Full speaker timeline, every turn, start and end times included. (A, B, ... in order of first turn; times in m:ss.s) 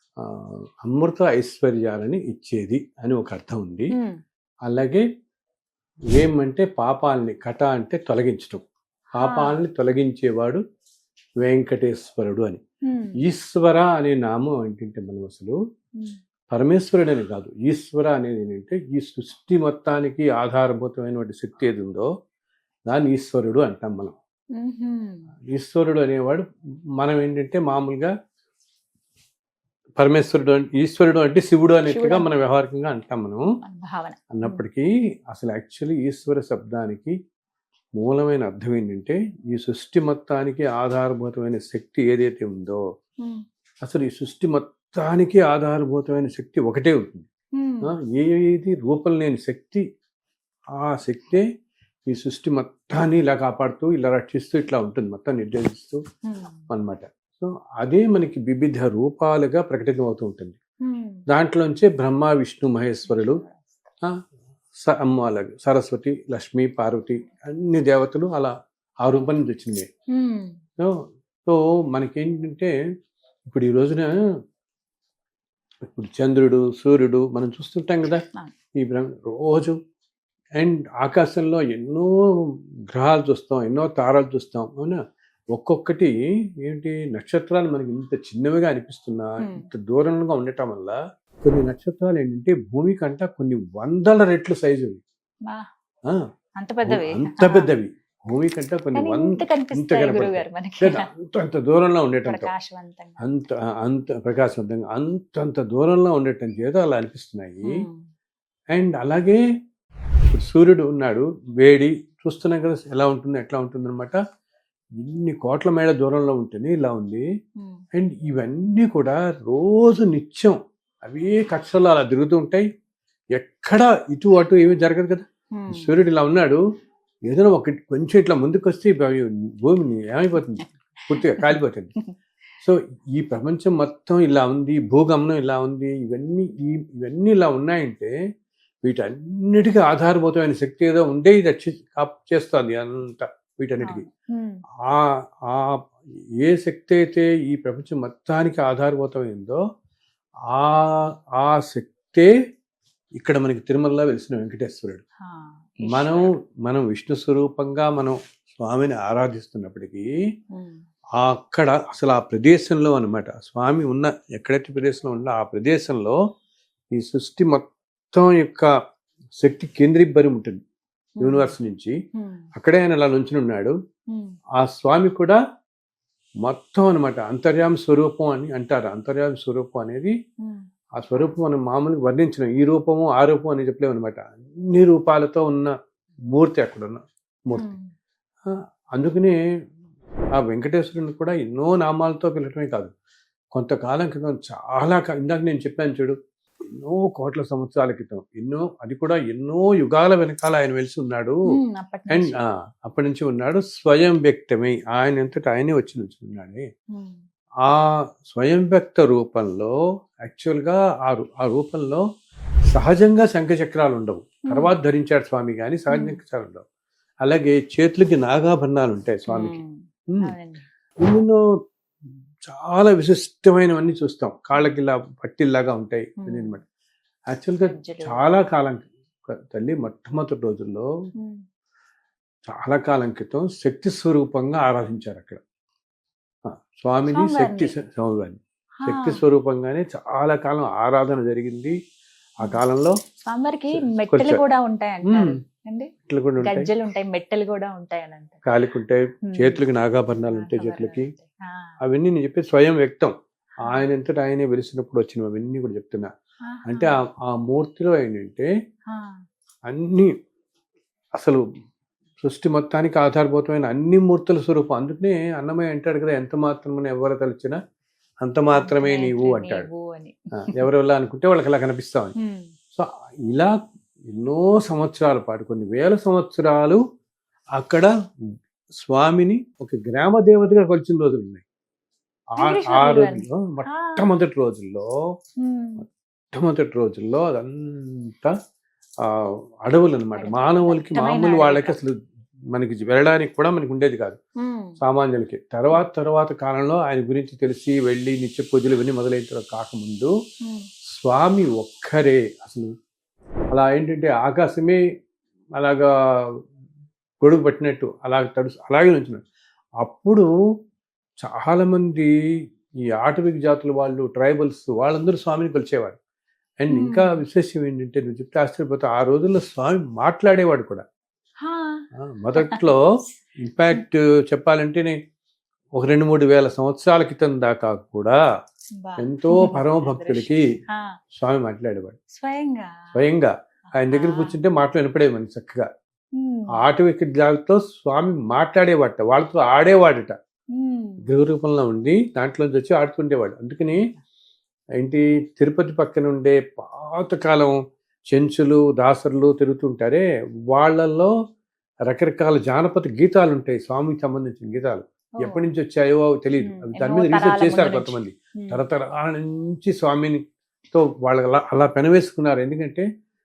0:00.2-0:03.9 A
0:03.9-0:04.2 B
0:04.7-0:05.0 A
0:06.1-0:08.6 A
0:09.2-0:10.6 A
0:09.2-0:09.6 B
0:11.4-0:12.6 A
0:12.8-0:13.2 B
0:13.2-0:15.6 A
0:16.5-0:22.1 A
0:22.9-0:24.1 A
0:24.6-0:25.3 B
0:25.5-0:26.4 A
0:27.0-0:28.1 A
0:30.0-0:33.4 A
0:31.9-0:32.3 B
0:33.6-0:34.6 B
0:34.3-0:37.2 A
0:38.0-0:42.8 A
0:43.8-0:47.2 A
0:47.6-0:47.9 B
0:47.8-0:49.8 A
0:50.8-0:51.4 A
0:52.1-0:56.0 A
0:56.2-0:56.6 B
0:56.7-1:00.6 A
1:00.8-1:01.2 B
1:01.3-1:03.4 A
1:03.0-1:03.8 B
1:04.8-1:09.9 A
1:10.1-1:10.6 B
1:10.8-1:12.7 A
1:13.5-1:14.1 A
1:15.8-1:18.2 A
1:18.8-1:19.8 A
1:20.6-1:25.0 A
1:25.5-1:35.0 A
1:36.6-1:37.7 B
1:36.9-1:42.5 A
1:38.9-1:41.1 B
1:42.3-1:43.2 B
1:43.2-1:47.8 A
1:47.6-1:48.0 B
1:48.7-1:49.4 A
1:50.3-1:54.2 A
1:55.0-1:57.2 A
1:57.9-2:02.7 A
2:03.4-2:06.6 A
2:05.6-2:05.9 B
2:07.3-2:11.9 A
2:10.6-2:12.1 B
2:12.6-2:18.1 A
2:18.8-2:24.0 A
2:23.8-2:24.6 B
2:24.8-2:25.8 A
2:26.4-2:29.6 A
2:30.5-2:32.3 A
2:33.2-2:35.0 A
2:35.2-2:36.3 B
2:35.9-2:40.1 A
2:40.5-2:40.8 B
2:41.2-2:46.2 A
2:46.9-2:48.7 A
2:49.4-2:50.6 A
2:51.2-2:51.5 B
2:51.2-2:51.9 A
2:52.1-2:52.4 B
2:52.6-2:53.7 A
2:54.6-2:55.4 A
2:56.4-3:00.1 A
3:01.0-3:05.7 A
3:06.3-3:07.7 A
3:07.5-3:07.9 B
3:08.5-3:09.4 A
3:10.4-3:12.9 A
3:13.5-3:16.2 A
3:16.7-3:21.4 A
3:21.5-3:22.4 B
3:22.1-3:26.6 A
3:26.9-3:27.2 B
3:27.6-3:32.0 A
3:32.7-3:36.6 A
3:34.5-3:34.7 B
3:35.9-3:36.2 B
3:37.2-3:39.6 A
3:39.3-3:40.6 B
3:41.0-3:41.4 A
3:42.5-3:46.6 A
3:46.2-3:46.6 B
3:47.3-3:48.9 A
3:47.6-3:48.3 B
3:49.5-3:50.9 A
3:51.2-3:51.4 B
3:52.5-3:55.4 A
3:56.4-4:01.8 A
3:57.1-3:57.7 B
3:58.8-3:59.2 B
4:02.4-4:02.9 A
4:03.3-4:08.4 B
4:03.7-4:04.4 A
4:05.1-4:05.4 A
4:06.1-4:06.7 A
4:08.4-4:11.1 A
4:09.3-4:09.6 B
4:10.1-4:11.7 B
4:11.8-4:16.1 A
4:13.6-4:13.8 B
4:16.4-4:16.9 B
4:16.7-4:18.5 A
4:18.9-4:19.2 B
4:19.7-4:20.1 A
4:21.2-4:21.4 A
4:22.2-4:27.6 A
4:28.2-4:29.7 A
4:28.5-4:30.6 B
4:30.4-4:32.1 A
4:32.2-4:32.5 B
4:32.7-4:33.6 A
4:34.1-4:36.8 A
4:37.6-4:37.9 A
4:38.8-4:41.4 A
4:42.3-4:44.9 A
4:42.4-4:44.0 B
4:45.4-4:45.8 B
4:46.3-4:48.3 A
4:49.0-4:51.9 A
4:50.2-4:51.8 B
4:52.5-4:54.2 A
4:54.4-4:54.8 B
4:54.8-5:00.1 A
5:00.9-5:02.7 A
5:03.5-5:04.8 A
5:05.6-5:06.3 A
5:07.2-5:09.2 A
5:09.8-5:10.3 A
5:11.2-5:12.1 A
5:12.9-5:16.0 A
5:16.6-5:20.8 A
5:16.7-5:17.2 B
5:21.4-5:21.8 B
5:22.0-5:22.8 A
5:22.4-5:22.7 B
5:23.4-5:25.0 A
5:25.8-5:28.2 A
5:28.8-5:30.9 B
5:29.0-5:30.4 A
5:31.1-5:32.0 A
5:32.1-5:33.0 B
5:32.9-5:35.7 A
5:33.8-5:34.4 B
5:36.2-5:36.6 B
5:36.6-5:40.1 A
5:40.6-5:41.0 B
5:41.0-5:43.8 A
5:44.8-5:47.5 A
5:48.1-5:51.1 A
5:51.9-6:00.2 A
5:55.2-5:55.4 B
5:56.4-5:58.6 B
6:00.7-6:02.8 A